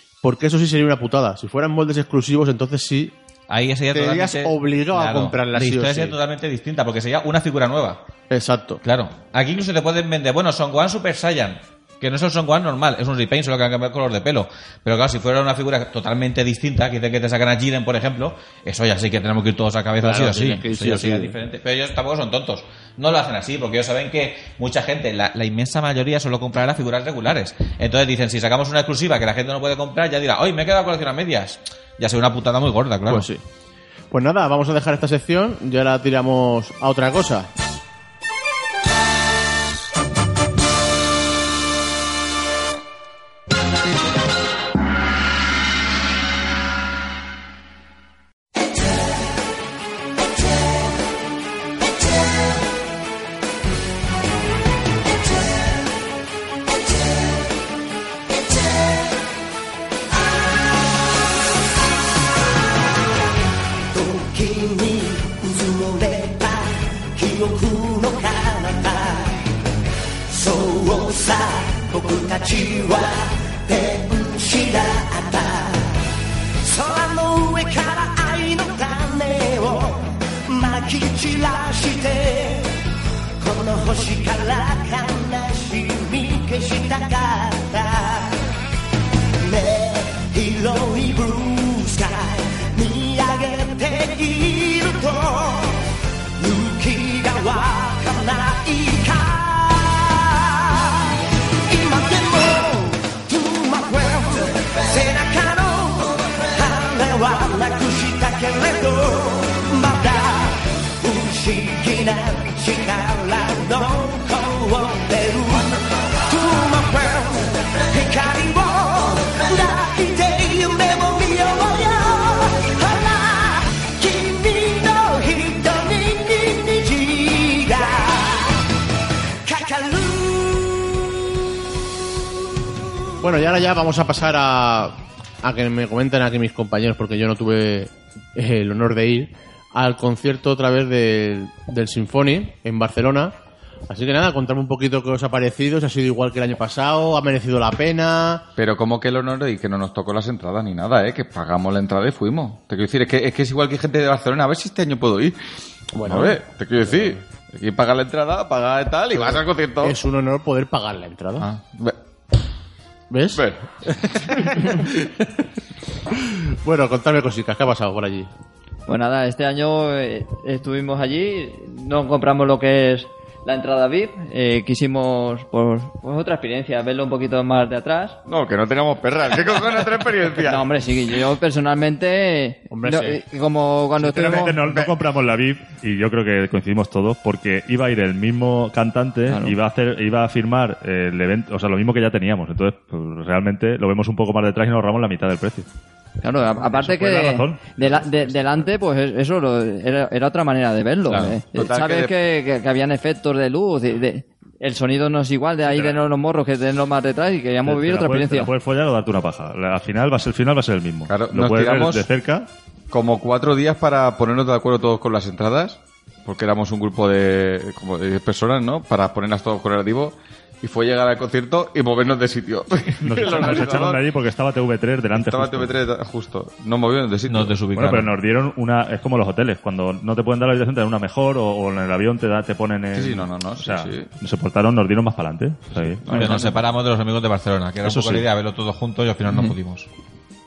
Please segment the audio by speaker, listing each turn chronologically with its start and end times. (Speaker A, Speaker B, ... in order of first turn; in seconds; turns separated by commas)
Speaker A: 0.2-3.1, Speaker B: 3.5-8.0, Speaker A: 3.9-6.2, Speaker A: 8.3-8.8, Speaker B: 8.8-33.3, Speaker A: 20.0-21.3, Speaker A: 33.1-33.4, Speaker A: 34.1-37.5, Speaker C: 63.9-69.5, Speaker C: 70.3-82.7, Speaker C: 83.4-88.4, Speaker C: 89.4-128.6, Speaker C: 129.4-131.2, Speaker A: 133.2-143.3, Speaker A: 143.9-148.5, Speaker D: 148.6-160.0, Speaker A: 155.9-157.2, Speaker A: 159.2-161.5, Speaker D: 161.4-162.0, Speaker A: 163.1-165.2, Speaker D: 163.3-163.7, Speaker A: 166.1-168.3, Speaker E: 168.9-178.2, Speaker D: 178.2-180.6, Speaker E: 180.4-184.6, Speaker A: 182.7-183.2, Speaker F: 184.0-195.7, Speaker A: 184.3-184.8, Speaker E: 189.3-189.6, Speaker E: 196.2-208.5, Speaker F: 196.4-198.7, Speaker D: 201.1-202.1, Speaker F: 207.6-212.5, Speaker D: 211.1-212.1, Speaker D: 212.9-224.1, Speaker F: 223.0-225.8, Speaker D: 225.1-227.6, Speaker B: 227.3-228.1, Speaker F: 227.7-236.3, Speaker D: 232.9-234.1, Speaker D: 235.8-236.5, Speaker B: 236.1-239.9, Speaker E: 236.1-236.5, Speaker F: 237.8-238.2